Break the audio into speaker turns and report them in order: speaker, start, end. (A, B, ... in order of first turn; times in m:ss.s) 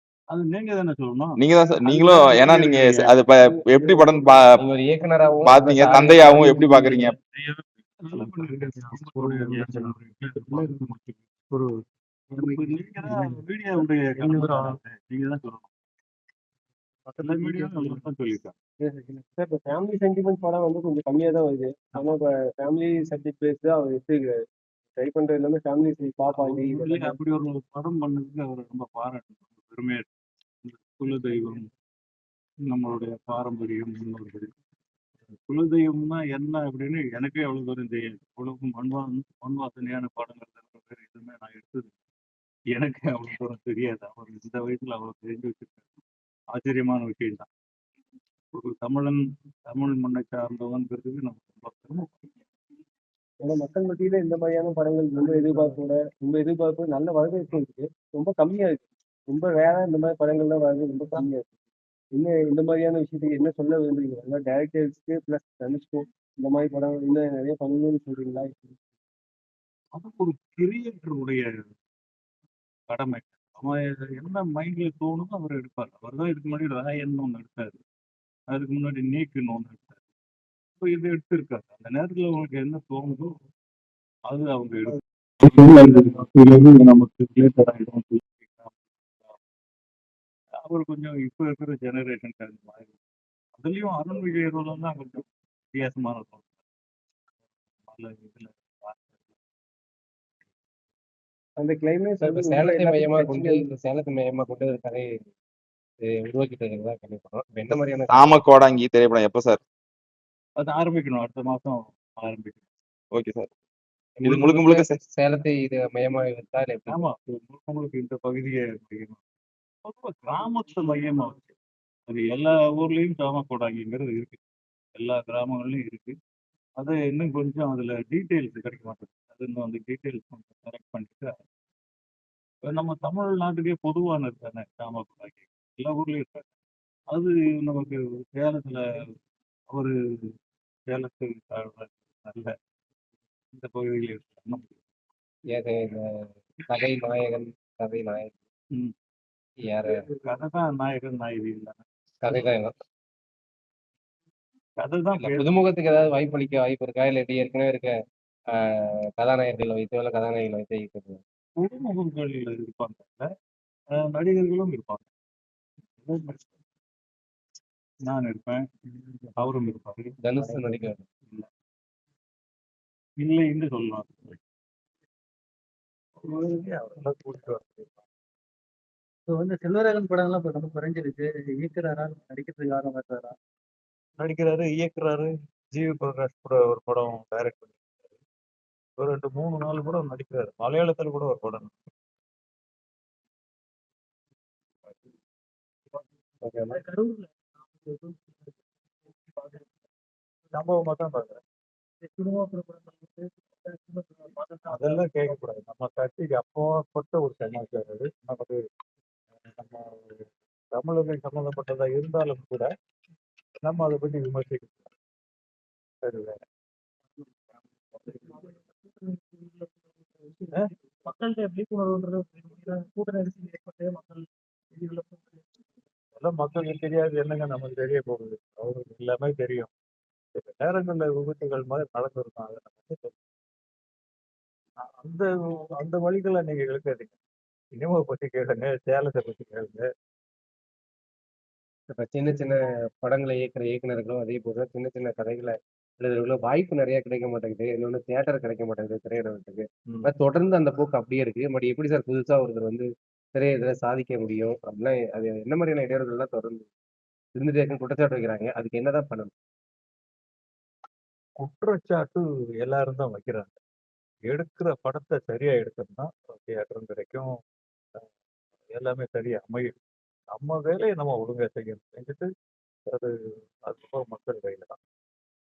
0:00.3-0:03.0 A
0:01.4-0:04.4 B
0:03.4-0:04.3 C
0:04.6-0:06.7 D
0:05.4-0:07.2 B
0:08.0-0:11.2 A
0:08.1-0:09.9 E
0:12.4-0:15.7 A
0:12.4-0:13.3 E
0:14.2-0:14.8 E
0:17.2-0:18.0 E
0:17.2-0:18.5 A
0:18.8-0:24.4 C
0:25.0-0:27.2 C
0:26.3-0:30.1 A
0:30.6-0:31.7 A
0:32.7-0:34.5 A
0:35.4-0:42.0 A
0:42.7-0:45.9 A
0:46.5-0:47.5 A
0:48.5-0:52.1 A
0:53.4-1:01.4 C
0:55.3-0:55.7 A
1:02.2-1:08.7 C
1:10.0-1:11.5 A
1:12.9-1:17.8 A
1:18.5-1:20.0 A
1:20.8-1:23.3 A
1:24.3-1:29.4 A
1:30.6-1:32.9 A
1:33.6-1:36.6 A
1:37.8-1:39.2 A
1:41.6-1:43.7 C
1:42.2-1:45.3 D
1:46.1-1:48.3 D
1:48.1-1:49.6 B
1:50.6-1:52.6 A
1:53.2-1:53.5 B
1:54.2-1:57.0 D
1:54.2-1:54.9 B
1:56.9-1:59.2 A
1:59.8-2:01.5 A
2:02.1-2:04.4 A
2:05.0-2:06.2 A
2:06.8-2:11.4 A
2:12.6-2:16.5 A
2:17.1-2:18.8 A
2:20.9-2:22.5 A
2:23.5-2:24.8 A
2:25.5-2:28.4 D
2:29.6-2:30.0 D
2:30.2-2:31.8 A
2:32.2-2:32.7 D
2:34.8-2:35.5 A
2:35.1-2:38.0 D
2:38.8-2:41.2 D
2:41.6-2:43.2 A
2:44.0-2:45.1 A
2:46.0-2:46.5 A
2:48.1-2:51.5 A
2:50.2-2:51.0 D
2:53.2-2:54.4 A
2:56.2-2:58.0 A
2:59.3-3:03.3 E
3:04.2-3:07.8 A
3:09.0-3:11.8 A
3:16.4-3:16.8 D
3:16.8-3:17.2 E
3:19.3-3:19.6 E
3:20.5-3:21.4 A
3:22.1-3:25.0 E
3:24.7-3:28.6 A
3:29.6-3:30.2 A
3:30.7-3:32.7 A
3:33.6-3:34.9 A
3:36.0-3:36.4 A
3:39.1-3:42.7 E
3:41.5-3:42.3 A
3:43.0-3:43.8 A
3:46.2-3:49.7 A
3:50.4-3:53.1 A
3:55.0-3:57.2 A
3:57.8-3:59.8 A
4:01.9-4:16.7 D
4:17.4-4:19.3 D
4:21.4-4:23.6 A
4:24.3-4:27.3 A
4:28.7-4:29.8 A
4:30.4-4:32.3 A
4:33.7-4:34.8 A